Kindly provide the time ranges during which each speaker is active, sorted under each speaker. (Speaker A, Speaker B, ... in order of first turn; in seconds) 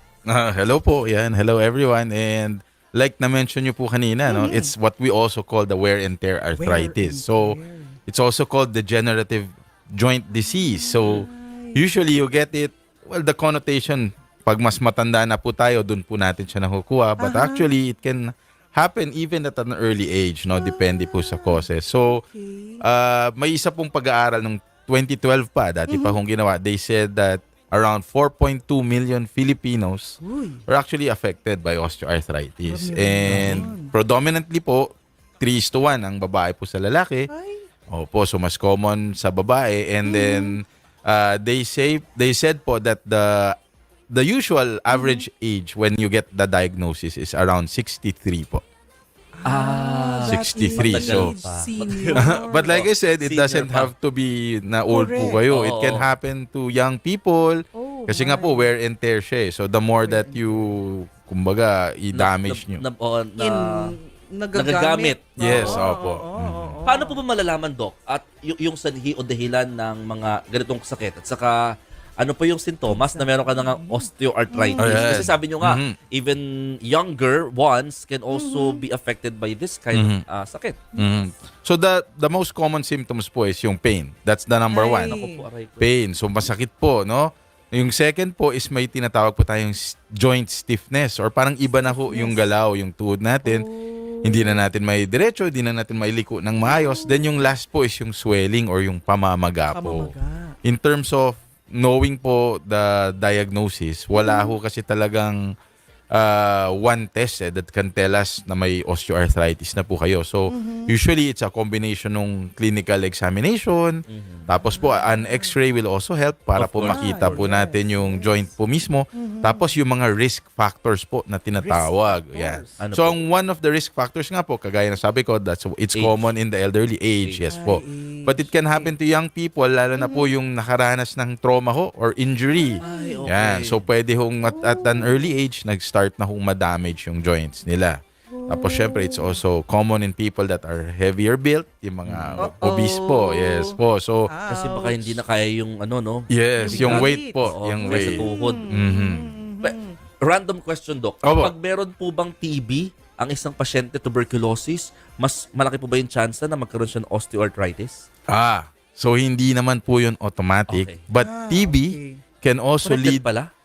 Speaker A: 0.2-22.2, 22.8-37.3, 37.9-43.5, 44.1-48.6, 50.2-51.3, 52.2-62.8, 65.4-66.8, 74.8-76.0, 79.9-80.2, 80.9-85.2, 85.8-93.7, 94.2-105.5, 106.1-144.3, 146.3-149.3, 151.2-151.5, 158.3-163.3
Speaker B: 4.2-4.7, 6.6-8.0, 10.4-11.8, 17.2-17.7, 20.5-22.8, 25.9-26.2, 30.2-30.6, 32.6-33.9, 37.3-37.6, 40.0-40.6, 44.9-45.2, 49.4-52.7, 54.9-55.4, 57.7-58.7, 60.0-60.8, 63.4-67.2, 72.9-75.3, 78.3-78.8, 80.9-81.3, 84.7-85.4, 91.7-92.5, 93.4-94.7, 96.6-97.5, 99.7-100.5, 104.1-104.5, 110.5-110.9, 114.6-115.6, 116.8-118.5, 119.1-119.7, 121.6-122.8, 127.5-128.9, 130.0-130.3, 132.6-133.3, 134.5-135.3, 138.3-139.4, 142.4-143.8, 144.3-145.2, 146.6-150.0, 161.2-162.2
Speaker C: 49.5-53.9, 55.5-56.1, 62.1-63.9, 64.5-65.8, 66.8-71.6, 72.2-80.8, 85.0-86.0, 114.1-114.4, 116.6-117.5, 122.8-123.2, 125.9-126.3, 132.8-133.9, 142.0-142.5, 144.5-148.7, 149.6-158.0, 160.7-161.0, 162.8-163.5